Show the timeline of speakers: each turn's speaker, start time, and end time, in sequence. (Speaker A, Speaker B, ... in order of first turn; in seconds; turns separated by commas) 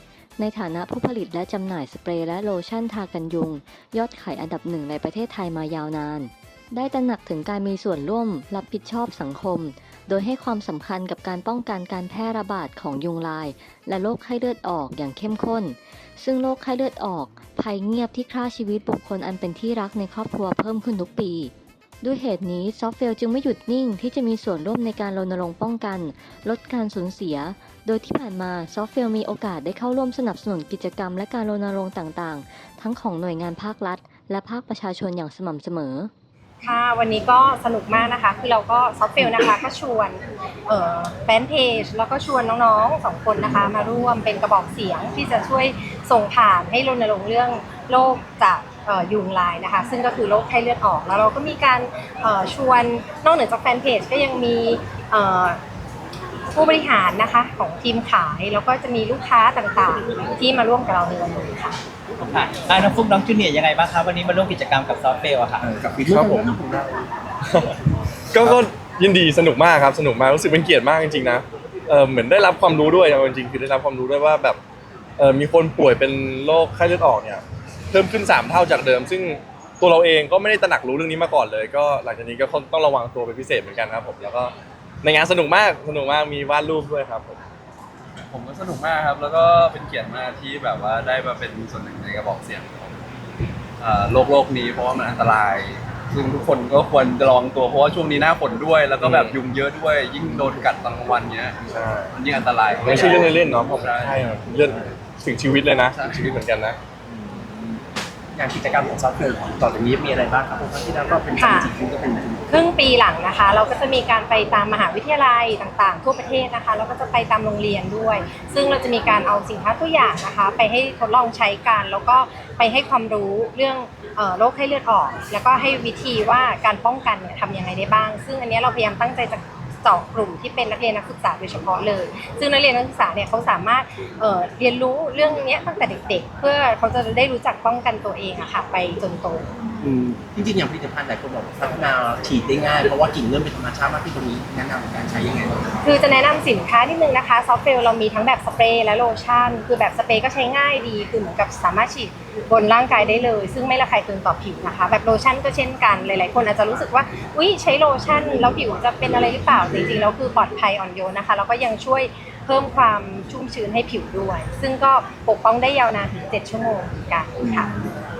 Speaker A: 0.4-36.1, Speaker B: 36.6-55.6, Speaker B: 56.5-61.8, Speaker C: 62.2-65.6, Speaker D: 65.6-67.1, Speaker E: 66.0-66.5, Speaker E: 68.3-74.6, Speaker D: 68.4-68.6, Speaker E: 75.2-87.4, Speaker F: 88.2-93.0, Speaker F: 93.8-104.3, Speaker E: 99.0-99.4, Speaker E: 101.7-102.2, Speaker E: 102.8-106.8, Speaker F: 105.9-106.3, Speaker D: 107.0-107.8, Speaker D: 108.3-112.5, Speaker B: 111.3-111.7, Speaker B: 112.5-139.4, Speaker D: 139.8-145.8, Speaker B: 145.8-167.7, Speaker D: 167.4-168.0